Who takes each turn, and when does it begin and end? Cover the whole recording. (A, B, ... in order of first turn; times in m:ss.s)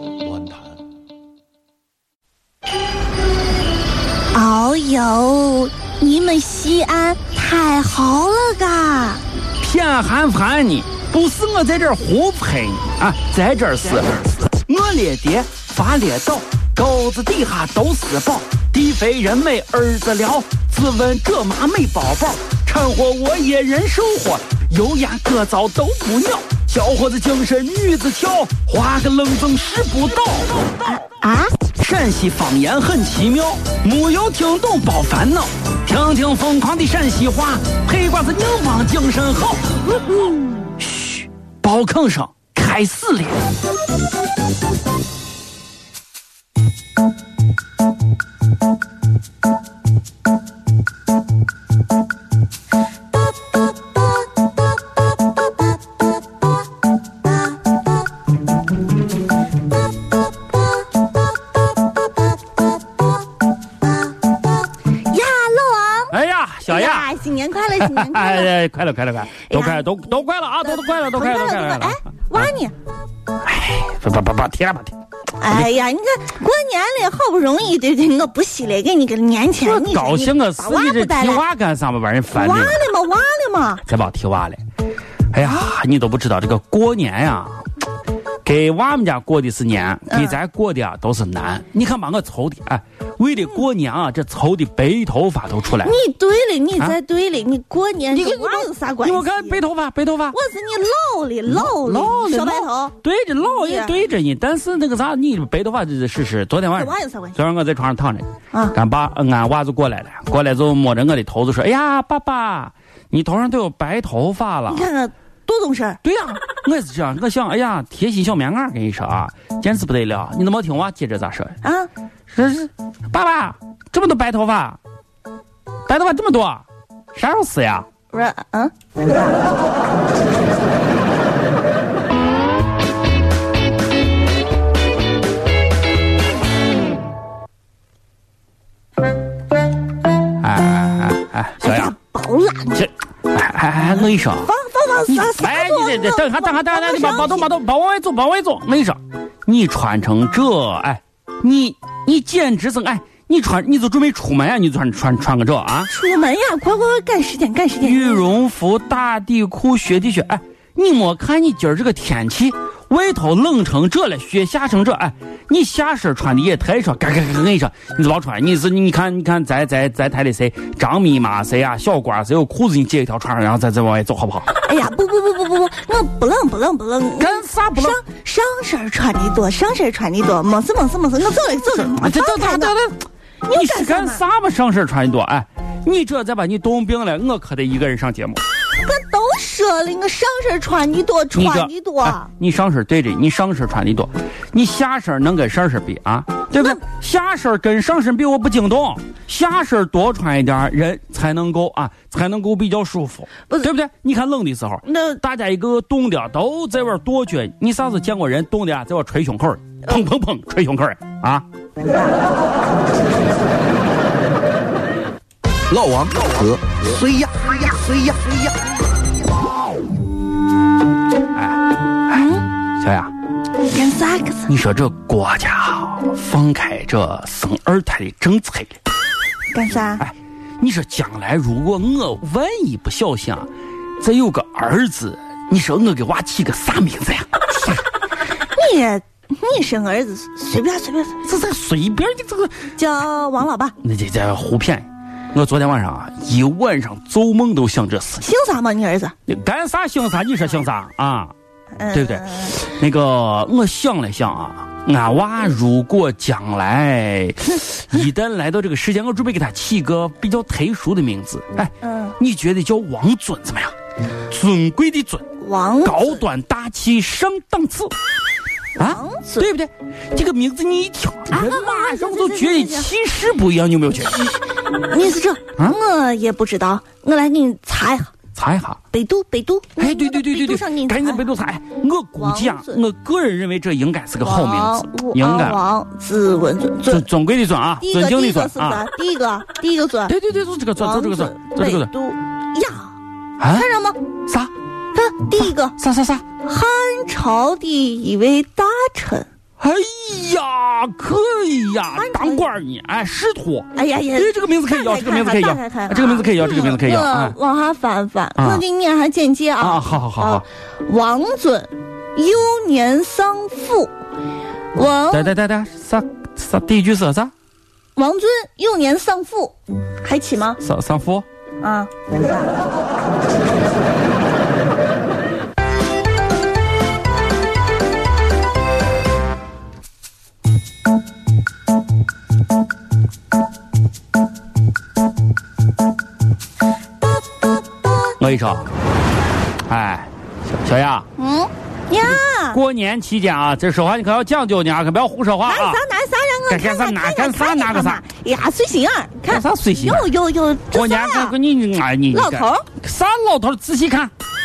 0:04.3-0:09.2 A
0:09.6-0:30.6 B
0:31.2-0:31.5 A
0:31.8-0:39.8 B
0:40.8-0:43.5 B
1:05.0-1:06.2 A
1:06.1-1:07.2 B
1:06.7-1:08.5 A
1:07.8-1:12.5 B
1:09.5-1:10.0 A
1:10.7-1:12.7 A
1:13.4-1:15.0 B
1:15.4-1:21.4 A
1:19.6-1:22.8 B
1:22.3-1:23.8 A
1:23.9-1:24.6 B
1:25.3-1:27.6 B
1:28.4-1:36.0 B
1:30.1-1:30.4 A
1:35.8-1:39.6 A
1:38.1-1:40.4 B
1:40.3-1:43.0 A
1:41.5-1:54.9 B
1:43.6-1:44.0 A
1:46.8-1:47.4 A
1:54.7-1:56.0 A
1:56.0-2:01.6 B
2:01.6-2:01.9 A
2:02.3-2:04.8 B
2:05.9-2:07.9 B
2:08.1-2:09.1 A
2:20.4-2:21.9 B
2:21.6-2:22.9 A
2:22.8-2:24.5 B
2:24.4-2:27.5 A
2:25.1-2:35.9 B
2:35.9-2:38.3 A
2:37.8-2:54.5 B
2:54.6-3:02.8 A
2:57.2-2:58.0 B
3:01.8-3:08.4 B
3:03.4-3:04.2 A
3:08.8-3:12.3 A
3:11.3-3:31.4 B
3:24.9-3:25.2 A
3:35.7-3:38.5 C
3:41.4-3:43.1 B
3:42.1-3:42.5 A
3:43.7-3:44.5 A
3:44.5-3:48.8 B
3:49.5-3:50.0 A
3:50.0-3:57.7 B
3:58.5-4:01.2 A
4:01.2-4:02.6 B
4:02.8-4:03.8 A
4:03.8-4:08.3 B
4:08.2-4:09.1 A
4:09.3-4:11.3 B
4:11.8-4:12.6 A
4:11.9-4:23.7 B
4:21.8-4:22.2 A
4:24.3-4:25.3 B
4:25.4-4:26.2 A
4:25.8-4:27.9 B
4:28.8-4:34.2 B
4:28.8-4:29.5 A
4:31.3-4:32.9 A
4:34.2-4:38.1 A
4:38.4-4:38.8 B
4:38.9-4:41.3 A
4:39.8-4:45.6 B
4:42.2-4:42.8 A
4:44.2-4:47.1 A
4:46.9-4:48.9 B
4:47.8-4:50.2 A
4:50.1-4:51.9 B
4:50.8-4:52.9 A
4:53.4-4:53.7 B
4:53.5-4:54.0 A
4:54.3-4:54.5 B
4:54.9-4:55.8 A
4:55.4-4:56.2 B
4:56.4-4:59.3 A
4:59.6-5:07.4 B
5:02.0-5:02.5 A
5:03.7-5:13.9 A
5:08.4-5:08.6 B
5:09.6-5:10.4 B
5:14.7-5:15.3 A
5:15.1-5:17.3 B
5:18.0-5:20.6 A
5:20.6-5:21.2 B
5:21.6-5:22.4 A
5:38.2-5:38.7 B
5:39.7-5:41.1 B
5:41.2-5:42.6 A
5:42.0-5:45.8 B
5:45.5-5:51.4 A
5:46.5-5:48.0 B
5:49.3-5:50.1 B
5:50.7-5:54.1 B
5:52.1-5:52.6 A